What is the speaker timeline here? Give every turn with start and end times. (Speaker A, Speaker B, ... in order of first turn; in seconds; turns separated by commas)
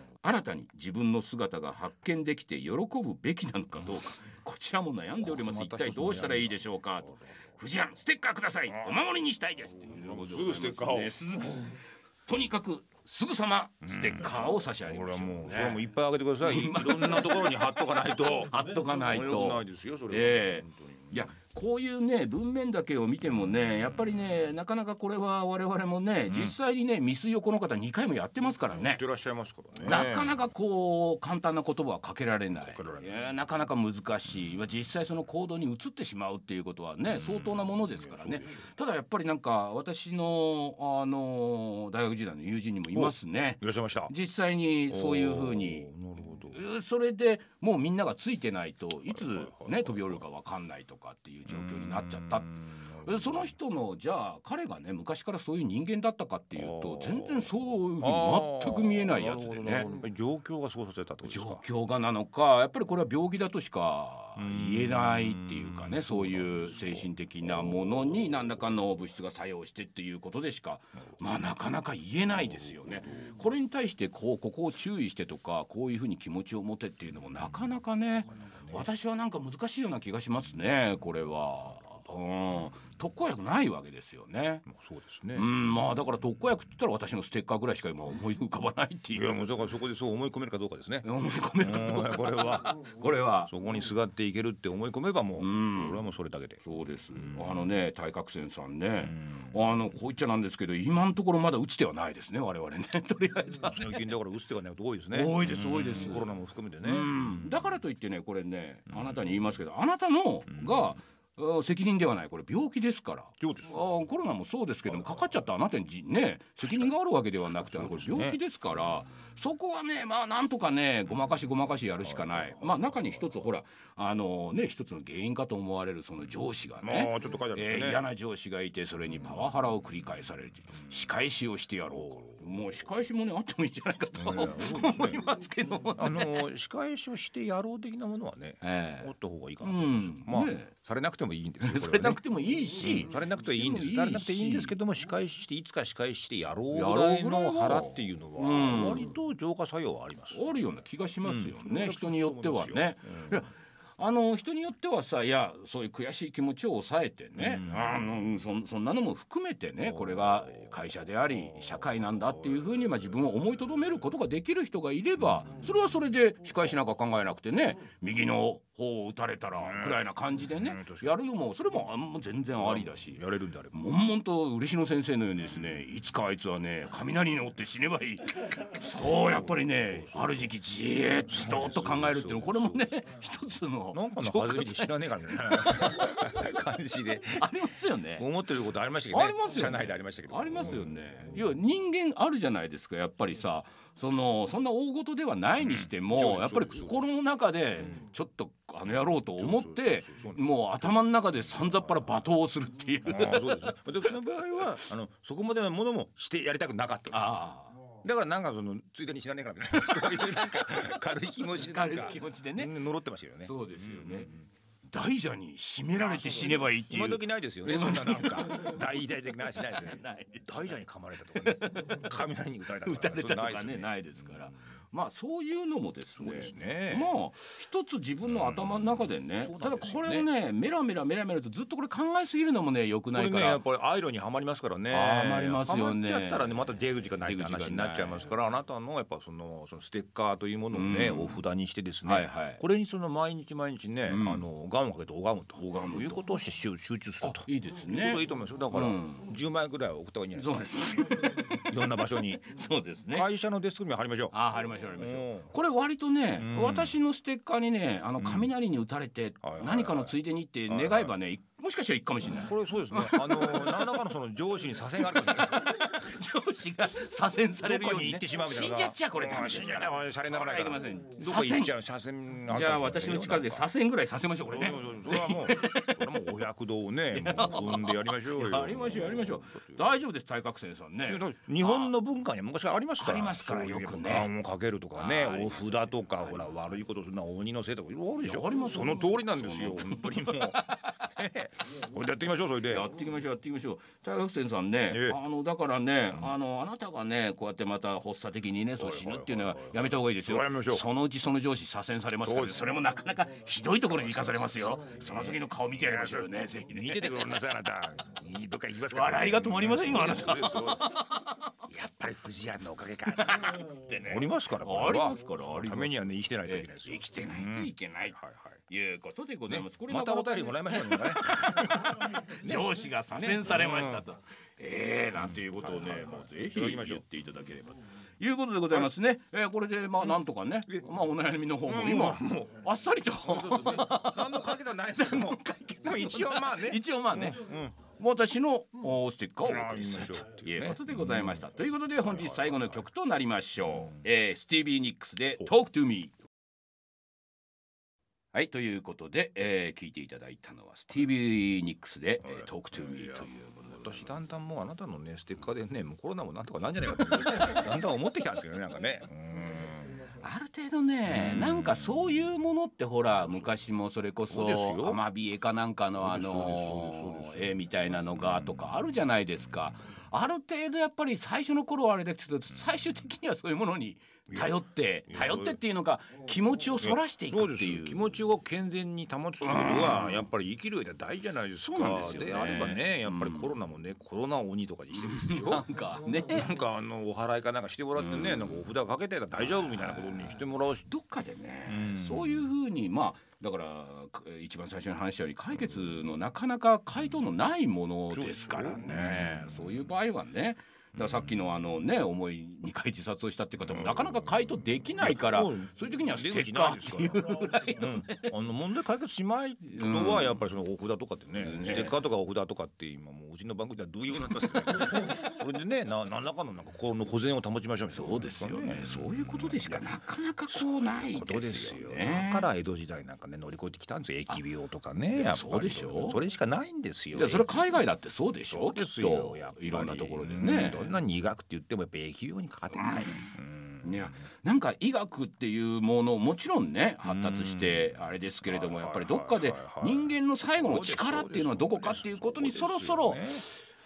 Speaker A: 0.2-15.8, Speaker B: 5.2-7.1, Speaker B: 9.9-11.1, Speaker B: 13.8-21.3, Speaker A: 16.4-29.0, Speaker B: 26.3-26.5, Speaker B: 28.8-30.4, Speaker A: 29.8-45.9, Speaker B: 32.6-33.2, Speaker B: 37.2-38.6, Speaker B: 42.9-44.1, Speaker B: 44.9-46.6, Speaker A: 46.5-59.9, Speaker B: 49.2-50.2, Speaker B: 51.5-53.5, Speaker B: 56.5-61.6, Speaker A: 61.2-84.7, Speaker B: 64.4-68.0, Speaker B: 72.6-73.3, Speaker B: 78.4-78.9, Speaker B: 84.7-85.5, Speaker A: 85.3-89.4, Speaker B: 89.1-91.0, Speaker A: 91.0-93.5, Speaker B: 91.6-92.7, Speaker B: 93.5-96.6, Speaker A: 95.4-96.0, Speaker A: 96.6-104.0, Speaker B: 97.1-97.5, Speaker B: 99.1-99.5, Speaker B: 103.6-107.5, Speaker A: 105.1-106.3, Speaker A: 106.8-136.4, Speaker B: 113.4-113.8, Speaker B: 114.9-115.3, Speaker B: 116.6-116.9, Speaker B: 117.6-118.4, Speaker B: 122.0-122.7, Speaker B: 126.8-128.0, Speaker B: 131.9-132.4, Speaker B: 134.2-135.2, Speaker B: 135.9-142.2, Speaker A: 138.6-140.7, Speaker A: 141.6-144.8, Speaker B: 142.7-150.4, Speaker A: 146.7-149.2, Speaker A: 150.3-173.2, Speaker B: 151.2-153.4, Speaker B: 157.4-157.9, Speaker B: 159.9-160.7, Speaker B: 162.3-162.9, Speaker B: 165.2-165.7, Speaker B: 169.6-171.1, Speaker B: 172.5-173.8, Speaker A: 173.7-186.6, Speaker B: 179.1-180.5, Speaker B: 181.2-183.0, Speaker B: 183.9-187.5, Speaker A: 187.3-188.3, Speaker B: 188.2-191.3, Speaker A: 189.1-203.7, Speaker B: 195.6-197.0, Speaker B: 199.3-200.4, Speaker B: 203.0-207.3, Speaker A: 207.1-207.8, Speaker B: 207.9-214.4, Speaker A: 209.7-211.0, Speaker A: 211.5-212.7, Speaker A: 213.4-214.3, Speaker A: 214.9-219.0, Speaker B: 216.0-224.5, Speaker A: 219.6-220.5, Speaker A: 221.3-222.2, Speaker A: 222.8-233.6, Speaker B: 226.2-227.1, Speaker B: 228.3-230.3, Speaker B: 233.1-252.5, Speaker A: 234.9-238.3, Speaker A: 240.7-241.4, Speaker A: 242.0-242.6, Speaker A: 244.1-244.4, Speaker A: 245.6-246.2, Speaker A: 247.2-249.3, Speaker A: 250.4-253.3, Speaker B: 253.1-254.3, Speaker A: 254.3-264.0, Speaker B: 254.9-255.5, Speaker B: 256.4-256.9, Speaker B: 258.2-258.5, Speaker B: 259.4-260.1, Speaker B: 260.7-261.1, Speaker B: 262.3-266.1, Speaker A: 264.9-271.7, Speaker B: 267.6-273.7, Speaker A: 272.5-276.2, Speaker B: 274.5-279.9, Speaker A: 277.1-281.9, Speaker B: 281.1-292.9, Speaker A: 283.0-284.3, Speaker A: 284.9-286.8, Speaker A: 288.2-291.1, Speaker A: 292.7-307.4, Speaker B: 294.9-295.2, Speaker B: 298.8-300.8, Speaker B: 302.2-302.7, Speaker B: 303.7-311.0, Speaker A: 308.9-311.5, Speaker B: 311.6-318.5, Speaker A: 313.1-346.1, Speaker B: 319.5-324.0, Speaker B: 325.6-327.0, Speaker B: 331.6-332.7, Speaker B: 333.2-337.7, Speaker B: 339.4-341.4, Speaker B: 342.0-342.8, Speaker A: 348.3-354.0, Speaker B: 352.2-360.1, Speaker A: 360.2-378.1, Speaker B: 361.1-362.0, Speaker B: 364.3-365.0, Speaker B: 366.0-368.8, Speaker B: 374.3-374.5, Speaker B: 375.1-375.6, Speaker B: 376.8-390.9, Speaker A: 379.4-380.3, Speaker A: 381.6-383.5, Speaker A: 384.9-386.5, Speaker A: 387.9-388.7, Speaker A: 389.4-408.3, Speaker B: 391.7-392.5, Speaker B: 398.1-399.9, Speaker B: 403.6-419.9, Speaker A: 409.6-410.4, Speaker A: 411.4-412.0, Speaker A: 414.4-414.9, Speaker A: 417.9-422.5, Speaker B: 420.5-427.6, Speaker A: 425.1-426.2, Speaker A: 427.1-430.9, Speaker B: 428.5-434.1, Speaker A: 432.9-433.3, Speaker A: 433.8-443.5, Speaker B: 437.0-443.5